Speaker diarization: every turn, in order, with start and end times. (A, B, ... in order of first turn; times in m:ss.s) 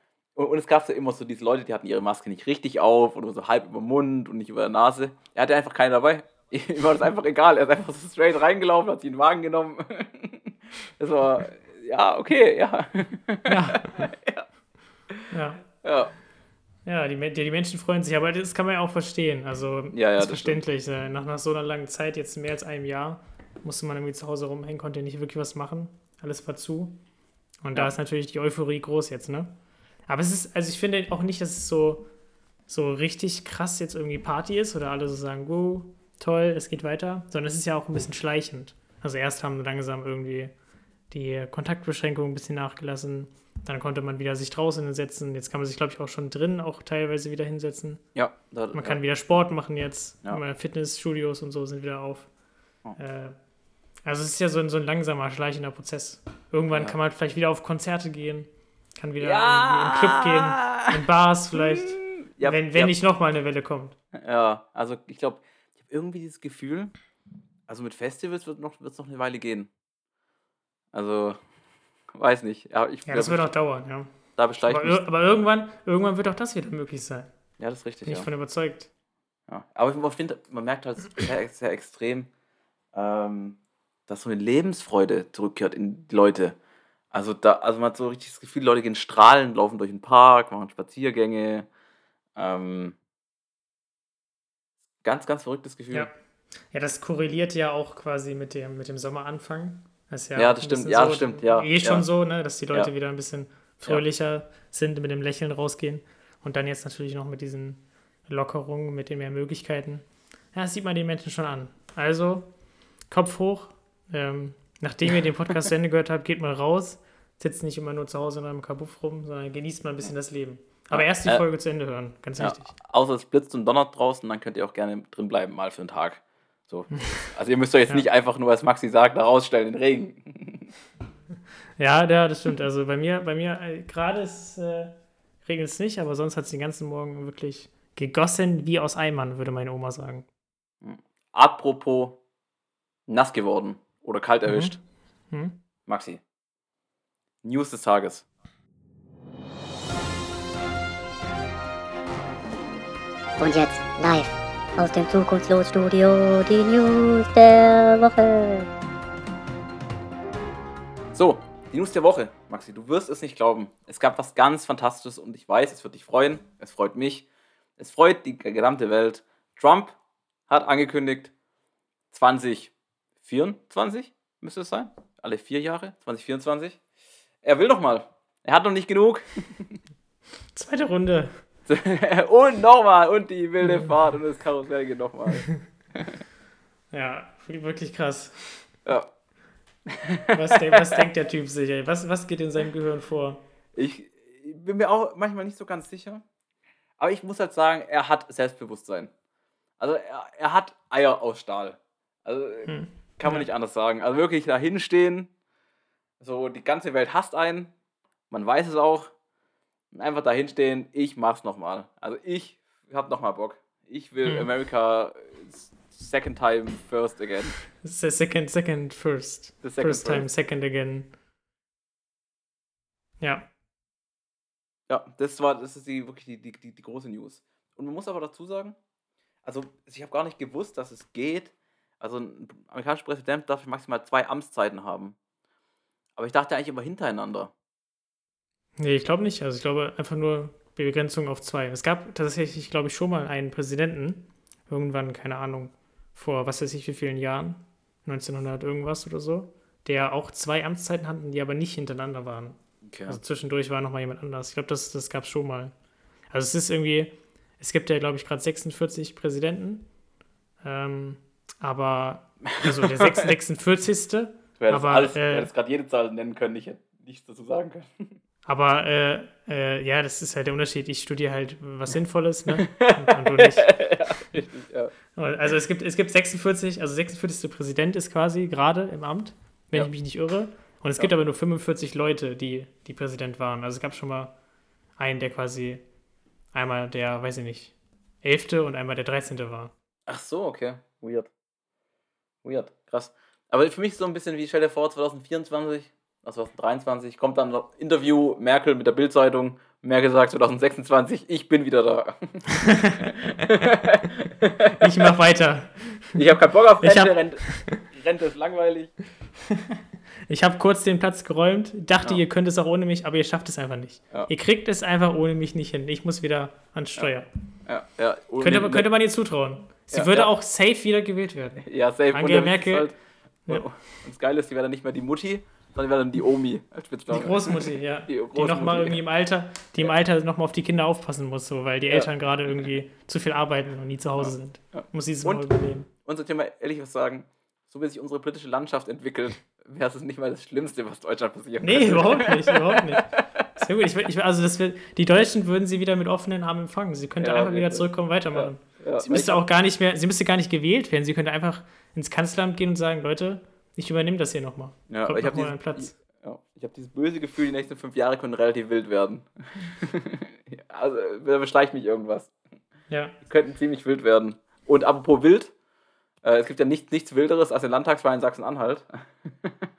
0:00.4-0:14.5 A
0:13.5-0:14.1 B
0:15.3-0:15.6 B
0:15.8-0:16.1 A
0:16.8-0:27.0 B
0:19.9-0:20.6 A
0:27.6-0:29.5 B
0:30.1-0:32.1 B
0:32.7-0:40.5 B
0:41.1-0:48.0 B
0:48.2-0:49.0 A
0:48.7-0:52.3 B
0:53.0-0:53.4 B
0:54.0-1:04.0 B
0:59.2-1:01.0 A
1:01.6-1:02.9 A
1:04.1-1:06.9 A
1:07.7-1:09.7 A
1:10.9-1:11.4 A
1:12.1-1:13.5 A
1:13.1-1:14.1 B
1:14.4-1:15.0 A
1:14.7-1:17.3 B
1:17.6-1:18.3 A
1:18.0-1:18.9 B
1:19.5-1:22.3 A
1:22.9-1:26.6 A
1:27.1-1:31.7 A
1:32.4-1:33.0 A
1:35.0-1:36.1 A
1:36.7-1:52.5 B
1:40.4-1:42.1 A
1:53.1-2:02.7 B
2:00.9-2:01.4 A
2:02.4-2:10.7 A
2:11.8-2:20.3 B
2:20.8-2:22.2 A
2:23.1-2:24.8 A
2:24.5-2:24.8 B
2:25.3-2:25.6 B
2:25.9-2:26.2 A
2:27.4-2:28.2 A
2:33.4-2:38.7 C
2:41.1-2:47.2 A
2:47.8-2:50.0 A
2:50.5-2:51.3 A
2:52.1-2:52.7 A
2:53.2-2:56.8 A
2:57.4-2:59.8 A
3:00.5-3:01.3 B
3:01.7-3:06.2 A
3:06.9-3:08.7 B
3:09.9-3:11.0 A
3:10.3-3:13.4 B
3:13.8-3:16.2 A
3:17.0-3:19.1 A
3:19.8-3:25.3 A
3:22.7-3:23.5 B
3:26.2-3:27.7 A
3:28.3-3:29.1 A
3:29.9-3:37.6 A
3:37.8-3:41.1 B
3:39.6-3:40.3 A
3:43.2-3:43.5 B
3:44.9-3:48.8 A
3:49.4-3:55.2 A
3:56.2-3:57.5 A
3:58.8-4:15.7 B
4:12.9-4:13.2 A
4:16.3-4:19.9 B
4:20.6-4:25.5 B
4:22.5-4:23.3 A
4:24.6-4:28.2 A
4:28.5-4:33.7 B
4:32.5-4:34.9 A
4:35.2-4:44.4 B
4:45.0-4:45.8 B
4:46.5-4:49.7 B
4:50.1-4:51.3 A
4:52.4-5:05.0 A
5:02.6-5:03.0 B
5:04.8-5:06.2 B
5:06.1-5:09.0 A
5:06.8-5:07.8 B
5:10.3-5:17.3 B
5:17.7-5:18.9 A
5:18.4-5:22.9 B
5:19.9-5:20.3 A
5:21.6-5:23.0 A
5:23.5-5:29.0 A
5:27.1-5:35.9 B
5:34.2-5:35.5 A
5:36.0-5:43.5 A
5:41.6-5:56.0 B
5:47.2-5:49.4 A
5:54.9-6:02.3 A
6:02.9-6:03.2 B
6:03.2-6:05.5 A
6:06.2-6:09.7 A